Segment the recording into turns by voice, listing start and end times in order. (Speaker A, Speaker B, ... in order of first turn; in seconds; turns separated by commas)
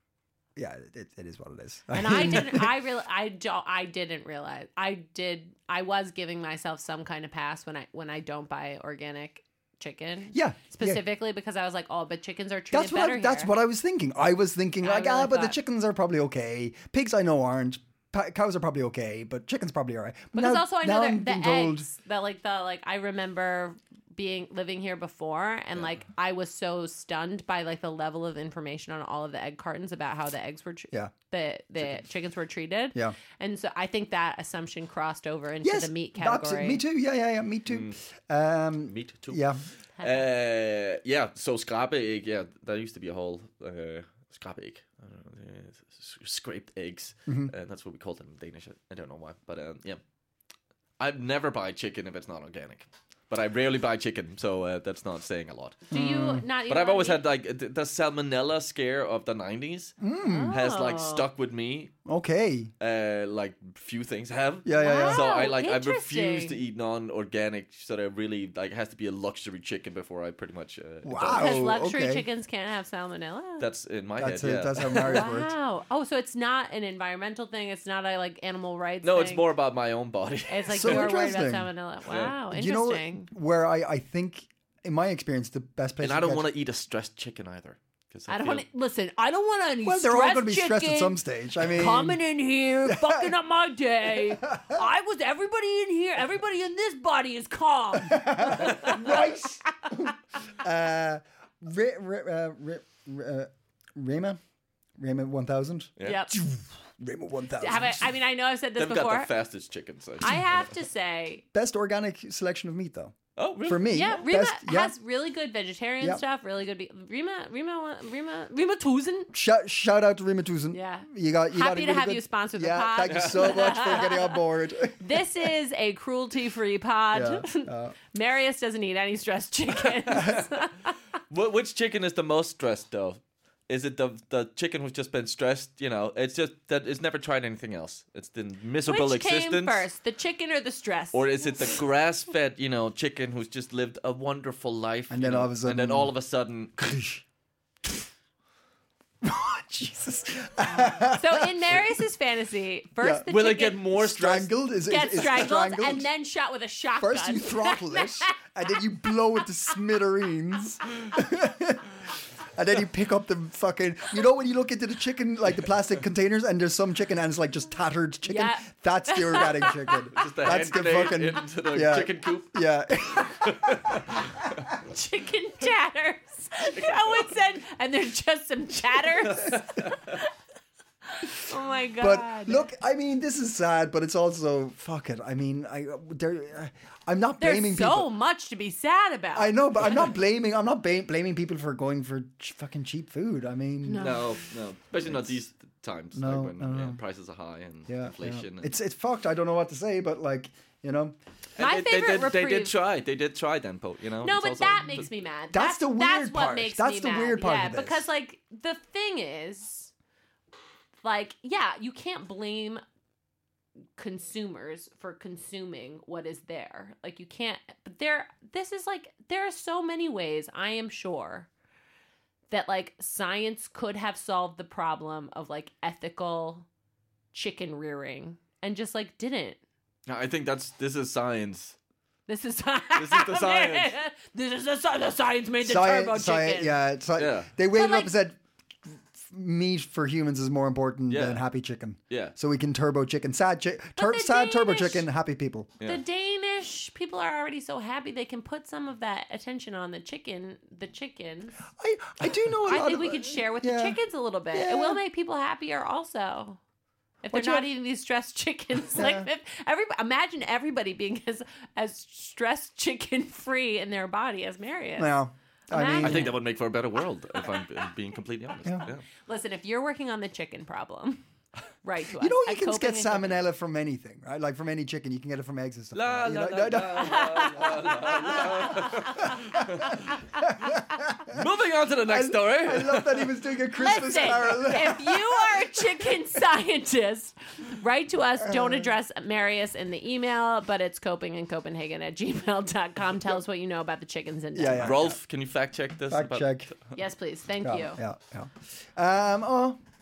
Speaker A: 0.6-2.7, Speaker B: 1.9-13.5, Speaker A: 10.3-11.0, Speaker A: 12.7-21.9, Speaker B: 14.8-15.6, Speaker B: 20.3-36.8, Speaker A: 35.6-39.6, Speaker C: 37.7-38.0, Speaker C: 38.9-39.5, Speaker B: 40.0-40.3, Speaker C: 40.0-50.0, Speaker A: 47.3-47.5, Speaker C: 51.0-55.9, Speaker B: 55.9-57.2, Speaker A: 55.9-56.4, Speaker C: 56.7-59.9, Speaker A: 60.0-60.6, Speaker B: 60.2-61.2, Speaker C: 60.5-61.9, Speaker A: 62.0-62.7, Speaker C: 62.8-71.7, Speaker A: 64.6-65.2, Speaker B: 64.8-66.6, Speaker A: 71.0-72.2, Speaker B: 71.3-73.7, Speaker C: 73.6-75.3, Speaker A: 74.2-75.5, Speaker B: 75.0-79.5, Speaker C: 79.0-81.1, Speaker B: 80.5-83.3, Speaker A: 80.7-81.7, Speaker C: 82.1-82.3, Speaker A: 82.5-86.5, Speaker C: 86.0-88.6, Speaker B: 88.3-99.1, Speaker A: 89.8-92.2, Speaker A: 92.8-93.3, Speaker A: 94.5-94.8, Speaker A: 98.0-104.4, Speaker A: 105.0-108.1, Speaker C: 106.0-106.2, Speaker B: 106.0-106.3, Speaker B: 107.6-109.3, Speaker C: 108.8-110.4, Speaker B: 110.2-111.4, Speaker A: 111.5-114.9, Speaker C: 113.4-114.2, Speaker B: 113.9-119.3, Speaker A: 119.3-125.2, Speaker B: 120.7-124.4, Speaker C: 123.0-123.9, Speaker B: 125.0-130.9, Speaker A: 127.1-127.9, Speaker C: 131.3-139.9, Speaker B: 138.8-141.7, Speaker C: 141.1-147.0, Speaker A: 145.1-146.1, Speaker A: 146.8-147.2, Speaker A: 149.2-152.0, Speaker B: 151.1-153.9, Speaker C: 153.3-154.5, Speaker A: 153.8-156.1, Speaker B: 154.9-158.3, Speaker A: 157.0-174.6, Speaker B: 168.2-170.1, Speaker C: 170.1-174.4, Speaker B: 174.8-180.3, Speaker C: 176.7-177.3, Speaker C: 179.3-179.9, Speaker B: 181.1-182.7, Speaker A: 182.0-188.1, Speaker B: 187.4-189.6, Speaker A: 189.3-194.2, Speaker B: 193.8-194.3, Speaker C: 194.0-198.7, Speaker A: 195.0-195.3, Speaker A: 196.1-197.0, Speaker A: 197.9-201.2, Speaker C: 201.6-205.1, Speaker B: 201.6-202.7, Speaker B: 204.2-209.9, Speaker A: 205.5-208.1, Speaker B: 211.0-212.8, Speaker B: 214.0-221.5, Speaker B: 222.5-226.7, Speaker B: 227.3-229.6, Speaker C: 230.1-231.8, Speaker B: 232.3-236.7, Speaker C: 232.9-233.9, Speaker A: 235.6-245.8, Speaker C: 237.2-237.5, Speaker B: 237.7-238.1, Speaker C: 241.1-241.4, Speaker B: 243.9-245.0, Speaker B: 245.8-251.6, Speaker A: 251.8-254.0, Speaker B: 252.7-256.6, Speaker A: 254.5-255.0, Speaker B: 257.2-265.1, Speaker A: 257.3-257.6, Speaker A: 258.9-259.3, Speaker A: 265.0-266.3, Speaker B: 265.7-266.4, Speaker C: 266.0-269.0, Speaker B: 269.2-271.2, Speaker B: 271.8-273.3, Speaker A: 272.2-281.4, Speaker C: 275.9-280.1, Speaker B: 276.9-279.9, Speaker C: 281.3-283.3, Speaker A: 282.1-285.8, Speaker B: 283.8-294.9, Speaker A: 294.5-295.2, Speaker C: 294.8-296.9, Speaker A: 296.1-296.7, Speaker B: 296.9-298.0, Speaker A: 297.6-299.8